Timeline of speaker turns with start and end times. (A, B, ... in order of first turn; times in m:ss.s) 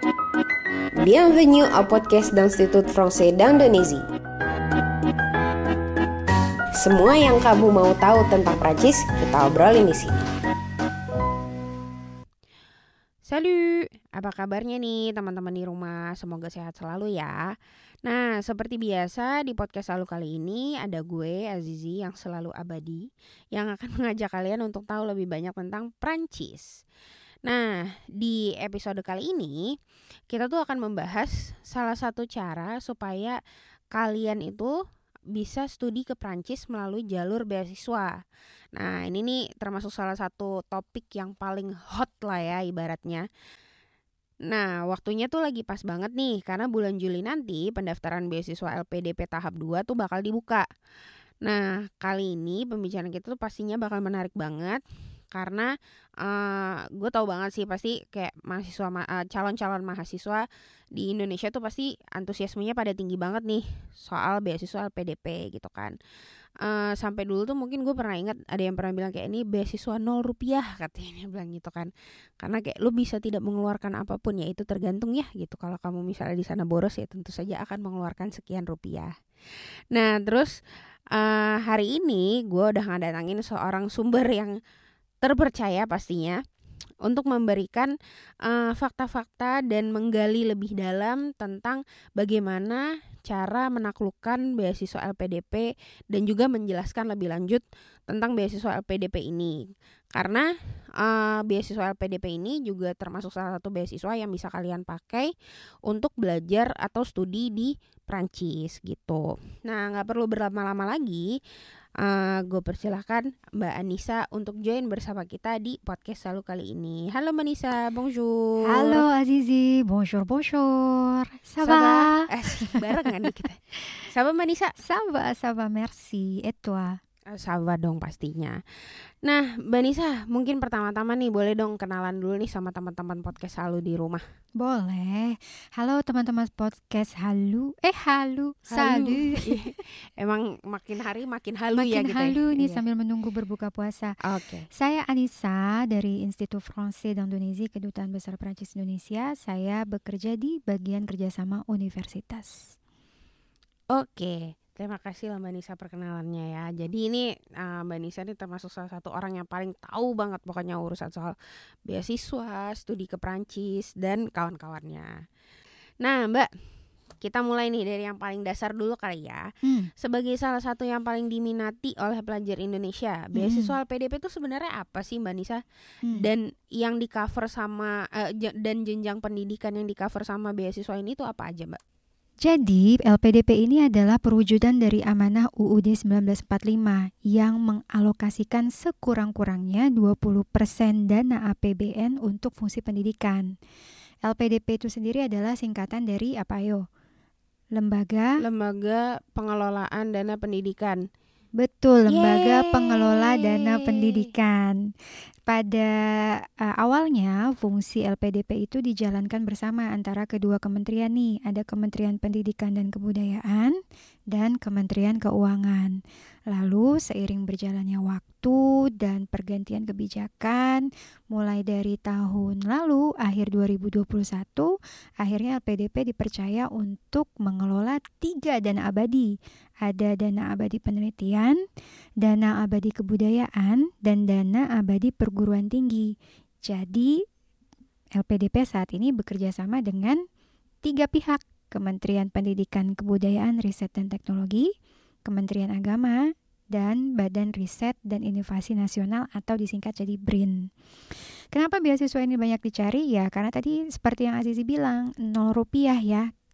0:01.0-0:04.0 A
0:06.8-0:10.2 A
0:13.2-0:17.4 B
0:18.0-0:26.7 B
0:27.4-0:29.7 B
0:30.3-0:33.4 B
0:33.9-0:34.8 B
0:35.4-0:38.1 B
0:38.7-0:43.2 B
0:44.5-0:50.7 B
0:51.4-0:54.8 B
0:55.3-0:55.7 B
0:56.2-1:00.4 B
1:01.0-1:06.0 B
1:06.6-1:19.1 B
1:19.9-1:20.5 B
1:21.1-1:24.5 B
1:25.2-1:26.4 B
1:27.0-1:27.9 B
1:28.4-1:39.6 B
1:40.1-1:45.3 B
1:45.9-1:51.3 B
1:52.0-1:59.0 B
1:58.7-2:03.3 C
2:01.6-2:04.7 B
2:04.8-2:07.0 C
2:07.3-2:08.6 B
2:09.2-2:14.2 B
2:14.6-2:19.7 C
2:18.7-2:22.8 B
2:21.8-2:24.2 C
2:24.3-2:24.7 B
2:24.7-2:32.8 C
2:33.9-2:41.4 B
2:41.9-2:45.1 B
2:46.0-2:46.5 B
2:47.2-2:49.4 B
2:49.6-2:49.9 C
2:50.0-3:01.8 B
2:53.3-2:53.8 C
2:56.0-2:56.3 C
3:02.4-3:13.5 C
3:14.2-3:16.9 C
3:17.7-3:18.4 C
3:18.4-3:21.0 B
3:21.6-3:24.9 C
3:22.1-3:24.3 B
3:25.4-3:33.8 C
3:34.3-3:51.6 C
3:52.2-3:57.1 C
3:58.2-4:00.2 C
4:00.8-4:04.7 C
4:05.3-4:10.7 C
4:11.5-4:16.3 C